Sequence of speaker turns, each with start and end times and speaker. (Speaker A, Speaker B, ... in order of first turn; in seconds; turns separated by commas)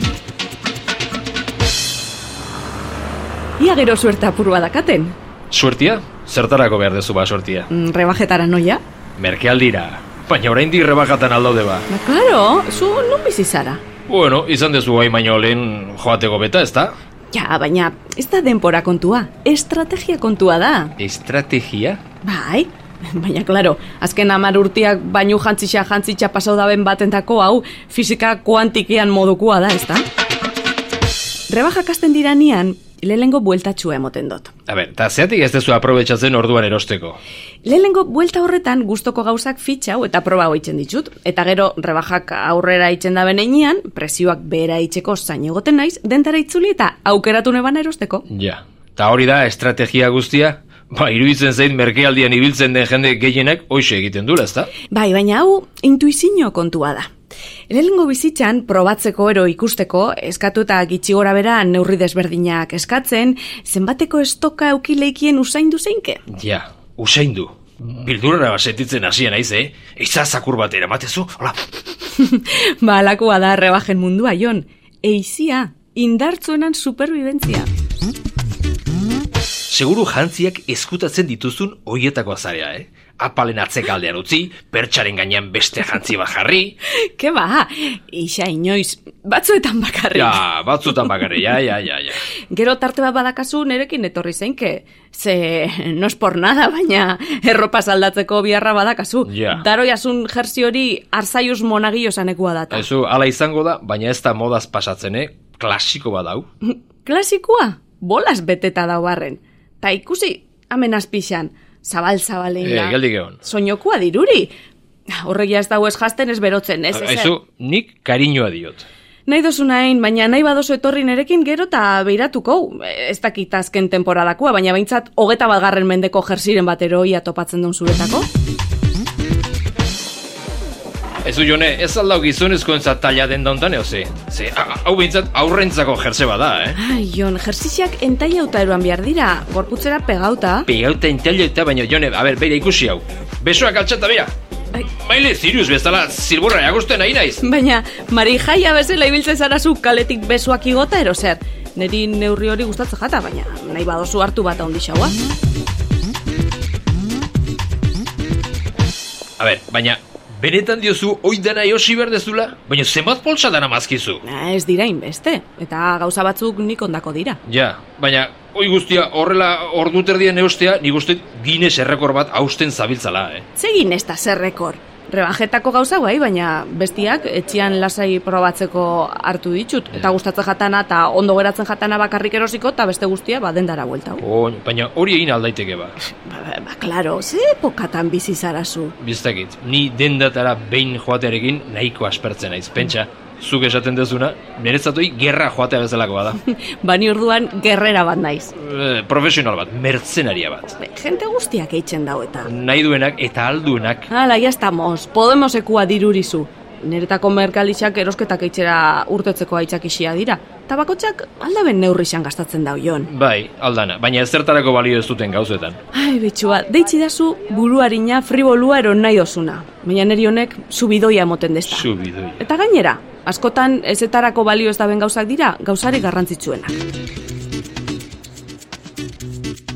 Speaker A: 3.6-5.1, Speaker B: 5.5-7.7, Speaker A: 7.7-8.8, Speaker B: 9.2-11.8, Speaker A: 11.9-13.8, Speaker B: 14.1-16.9, Speaker A: 17.3-20.9, Speaker B: 21.0-22.0, Speaker A: 22.2-30.0, Speaker A: 31.5-34.5, Speaker B: 34.7-37.2, Speaker A: 37.6-48.2, Speaker B: 48.3-54.7, Speaker A: 54.9-57.1, Speaker A: 57.7-66.2, Speaker B: 66.3-71.6, Speaker A: 72.1-77.7, Speaker B: 79.7-86.8, Speaker A: 86.8-91.1, Speaker B: 90.1-92.2, Speaker A: 92.5-102.9, Speaker B: 99.2-99.6, Speaker B: 102.7-106.5, Speaker A: 106.6-114.5, Speaker B: 112.6-113.4, Speaker A: 115.1-117.3, Speaker B: 116.9-118.8, Speaker A: 119.2-128.3, Speaker B: 131.2-136.8, Speaker A: 136.7-140.7, Speaker B: 140.7-144.3, Speaker B: 144.8-147.4, Speaker A: 147.4-155.2, Speaker B: 159.4-164.2, Speaker A: 164.2-167.4, Speaker B: 167.4-173.4, Speaker A: 173.6-184.2, Speaker B: 184.2-186.0, Speaker A: 186.0-188.9, Speaker B: 189.0-196.4, Speaker A: 196.4-198.5, Speaker B: 198.6-200.7, Speaker A: 200.8-202.5, Speaker B: 202.5-204.1, Speaker A: 204.1-213.1, Speaker B: 213.1-215.8, Speaker A: 215.9-221.9, Speaker B: 221.7-222.5, Speaker A: 222.4-226.8